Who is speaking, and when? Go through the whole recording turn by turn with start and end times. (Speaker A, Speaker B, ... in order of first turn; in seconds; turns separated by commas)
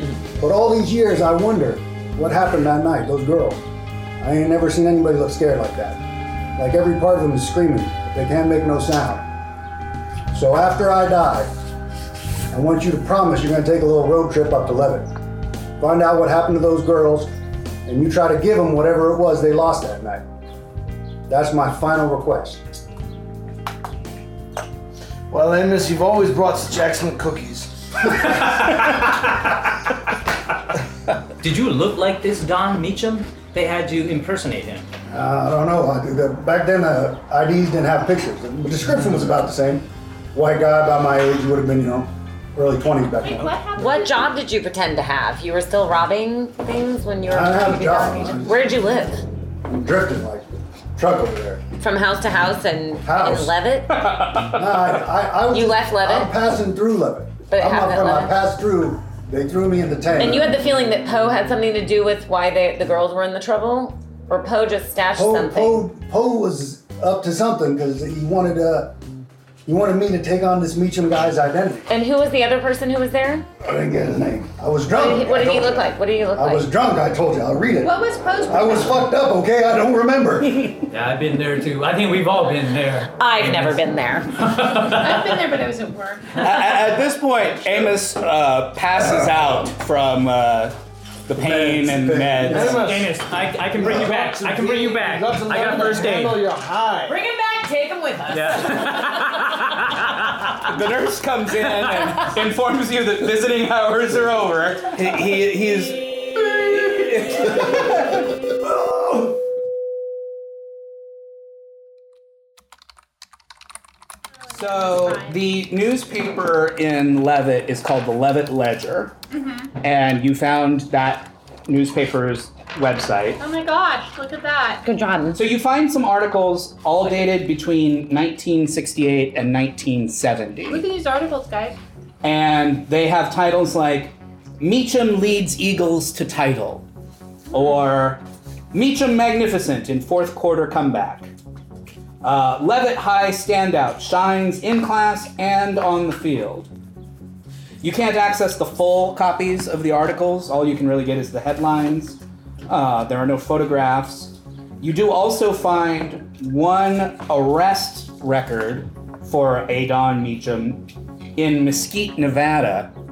Speaker A: 0.4-3.6, Speaker A: 4.2-6.0, Speaker A: 6.6-9.3, Speaker A: 10.3-11.5, Speaker A: 12.5-15.1, Speaker A: 15.8-17.3, Speaker A: 17.9-20.2, Speaker A: 21.3-22.6, Speaker B: 25.3-27.8, Speaker C: 31.4-34.9, Speaker A: 35.1-43.6, Speaker D: 43.2-44.3, Speaker E: 43.8-49.2, Speaker A: 47.2-48.7, Speaker A: 49.7-51.6, Speaker E: 51.8-54.1, Speaker A: 53.0-53.6, Speaker F: 54.0-54.5, Speaker A: 54.5-60.6, Speaker E: 55.5-56.3, Speaker E: 57.5-58.4, Speaker E: 60.2-65.9, Speaker A: 65.1-69.0, Speaker A: 69.7-71.9, Speaker E: 71.9-73.5, Speaker A: 73.6-80.7, Speaker E: 74.9-76.7, Speaker D: 77.8-78.7, Speaker C: 80.9-83.8, Speaker E: 83.2-84.3, Speaker C: 84.4-85.4, Speaker D: 84.8-86.6, Speaker F: 86.4-90.8, Speaker F: 91.3-92.9, Speaker A: 91.4-92.8, Speaker B: 92.4-97.2, Speaker C: 92.7-96.4, Speaker E: 97.1-99.4, Speaker C: 98.3-100.6, Speaker F: 100.6-108.4, Speaker D: 114.5-115.4, Speaker F: 114.5-119.2, Speaker D: 119.3-119.7, Speaker F: 119.8-123.4, Speaker D: 123.4-124.8, Speaker E: 124.8-125.4, Speaker F: 125.3-130.9, Speaker D: 130.7-131.8, Speaker F: 132.2-136.8, Speaker F: 137.5-141.3, Speaker F: 142.2-146.7, Speaker F: 147.8-160.9, Speaker F: 161.4-162.9